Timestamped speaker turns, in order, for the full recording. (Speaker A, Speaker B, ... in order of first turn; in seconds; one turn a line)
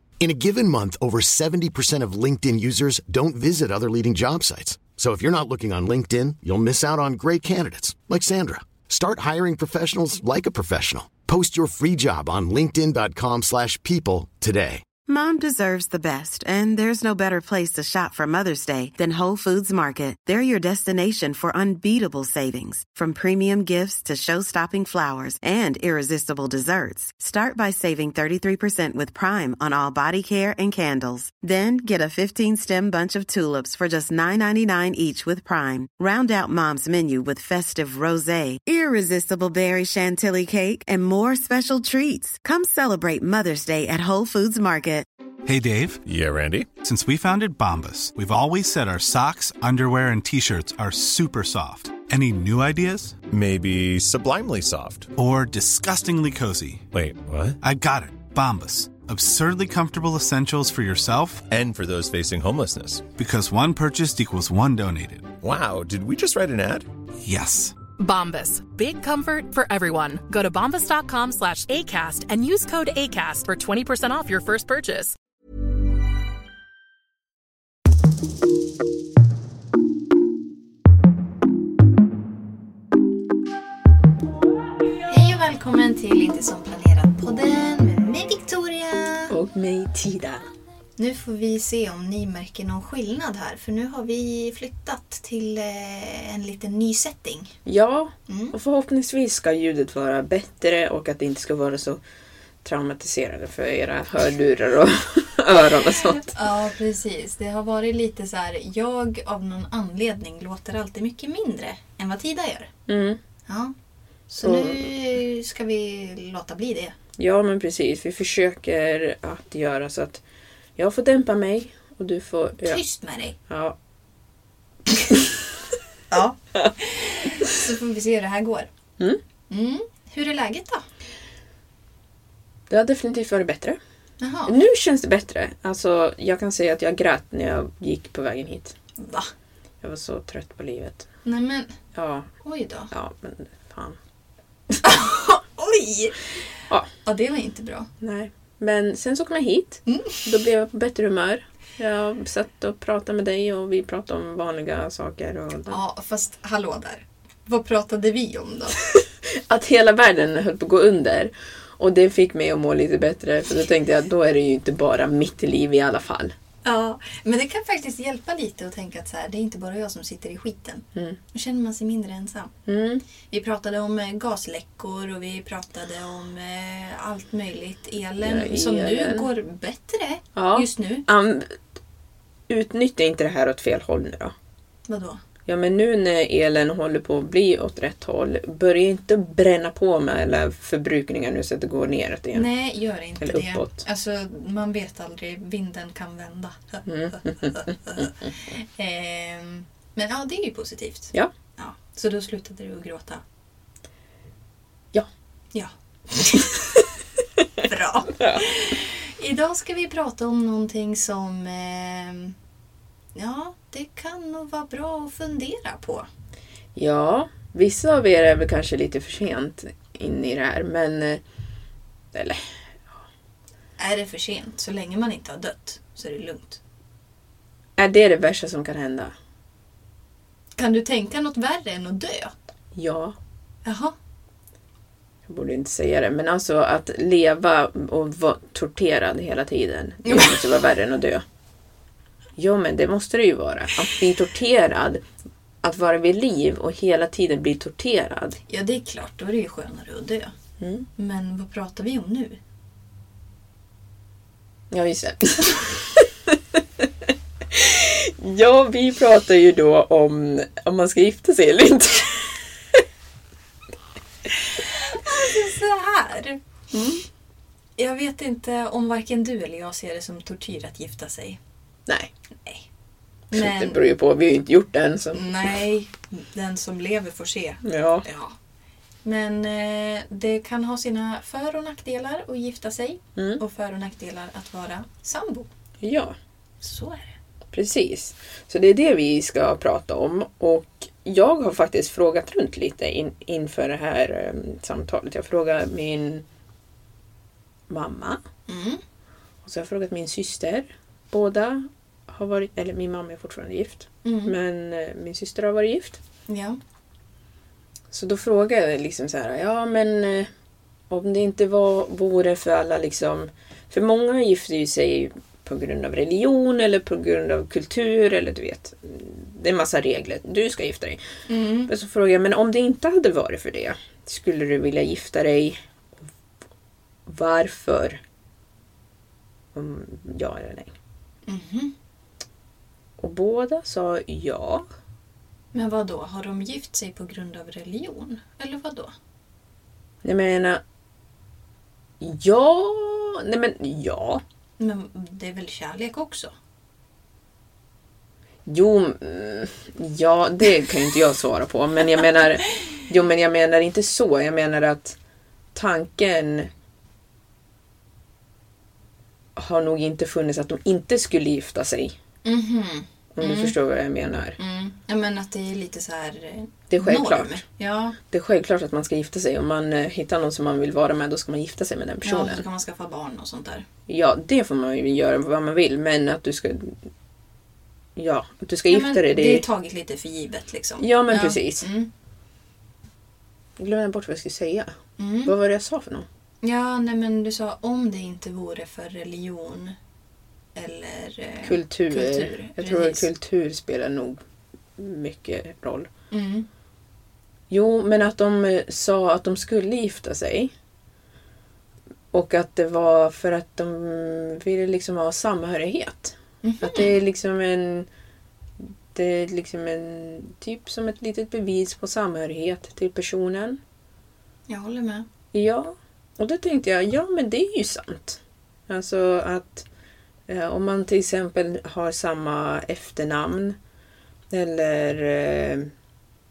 Speaker A: 0.2-14.9
Speaker B: 15.1-45.1
Speaker C: 45.5-46.0
Speaker D: 46.0-46.7
Speaker C: 46.8-53.2
Speaker D: 53.3-55.1
Speaker C: 55.2-56.9
Speaker D: 56.9-57.6
Speaker C: 57.6-61.5
Speaker D: 61.5-63.1
Speaker C: 63.1-65.4
Speaker D: 65.4-66.9
Speaker C: 67.2-67.8
Speaker E: 68.0-75.2
Speaker F: 85.1-89.3
Speaker G: 89.3-90.4
Speaker F: 91.0-97.5
Speaker G: 97.7-102.0
Speaker F: 98.3-98.6
Speaker G: 102.6-106.4
Speaker F: 106.1-112.7
Speaker G: 112.9-113.2
Speaker F: 113.5-113.7
Speaker F: 114.3-117.0
Speaker G: 114.4-114.9
Speaker G: 117.2-120.2
Speaker G: 120.8-122.8
Speaker F: 122.6-123.4
Speaker G: 123.5-123.8
Speaker G: 125.0-125.3
Speaker F: 126.1-128.7
Speaker F: 129.5-130.8
Speaker G: 132.7-133.8
Speaker F: 134.2-134.5
Speaker G: 134.5-138.7
Speaker F: 139.0-139.3
Speaker G: 139.8-141.1
Speaker F: 141.2-141.8
Speaker G: 141.9-142.3
Speaker F: 142.4-142.9
Speaker G: 142.9-144.0
Speaker F: 144.8-146.2
Speaker F: 147.0-147.9
Speaker G: 148.0-155.8
Speaker F: 149.9-150.3
Speaker F: 155.7-158.8
Speaker G: 158.9-166.3
Speaker F: 166.6-172.5
Speaker G: 172.7-173.0
Speaker F: 173.3-181.1
Speaker G: 178.2-179.3
Speaker G: 180.4-181.5
Speaker G: 182.5-184.3
Speaker F: 184.9-185.2
Speaker G: 185.5-192.5
Speaker F: 192.3-203.2
Speaker G: 193.2-193.8
Speaker G: 196.9-198.0
Speaker F: 205.5-206.7
Speaker F: 207.6-212.3
Speaker F: 213.2-216.1
Speaker G: 216.8-221.2
Speaker G: 222.1-223.0
Speaker F: 223.8-226.6
Speaker G: 227.8-229.1
Speaker F: 230.6-232.3
Speaker G: 232.8-233.2
Speaker F: 233.7-233.9
Speaker G: 235.3-241.2
Speaker F: 240.1-240.4
Speaker G: 242.4-245.0
Speaker G: 245.6-248.4
Speaker F: 248.5-250.3
Speaker G: 250.6-250.9
Speaker F: 251.0-252.4
Speaker G: 254.7-256.9
Speaker G: 257.5-262.8
Speaker F: 264.6-266.4
Speaker G: 266.7-267.0
Speaker F: 267.8-271.4
Speaker F: 273.3-273.8
Speaker G: 273.3-275.3
Speaker F: 275.1-278.4
Speaker G: 277.6-278.1
Speaker F: 279.0-285.5
Speaker G: 283.2-283.4
Speaker G: 285.8-286.1
Speaker F: 286.6-287.2
Speaker G: 287.5-296.2
Speaker G: 297.7-298.2
Speaker F: 298.5-298.8
Speaker G: 299.4-306.0
Speaker F: 304.1-304.3
Speaker F: 306.3-306.6
Speaker G: 307.9-310.3
Speaker G: 310.9-321.0
Speaker F: 321.3-321.7
Speaker G: 321.7-325.6
Speaker G: 327.1-328.0
Speaker G: 329.6-330.7
Speaker F: 331.3-331.7
Speaker G: 333.0-334.7
Speaker F: 335.5-338.9
Speaker G: 340.0-340.6
Speaker G: 342.0-344.2
Speaker F: 344.6-346.3
Speaker G: 348.5-355.0
Speaker G: 355.6-356.5
Speaker G: 359.4-362.0
Speaker F: 362.2-363.6
Speaker G: 363.1-364.4
Speaker F: 364.4-368.0
Speaker G: 366.7-367.4
Speaker G: 368.1-372.4
Speaker F: 372.0-373.7
Speaker G: 373.9-376.9
Speaker G: 378.0-379.5
Speaker F: 378.7-381.9
Speaker G: 380.8-381.6
Speaker G: 383.6-384.7
Speaker F: 385.0-385.3
Speaker G: 385.3-386.1
Speaker F: 386.4-389.8
Speaker F: 390.6-393.1
Speaker G: 391.4-394.2
Speaker G: 394.8-395.9
Speaker F: 396.1-396.5
Speaker G: 397.5-400.5
Speaker G: 402.1-407.9
Speaker F: 406.4-406.9
Speaker G: 408.9-413.6
Speaker F: 414.5-415.1
Speaker G: 415.3-419.7
Speaker G: 420.3-423.6
Speaker G: 424.3-425.7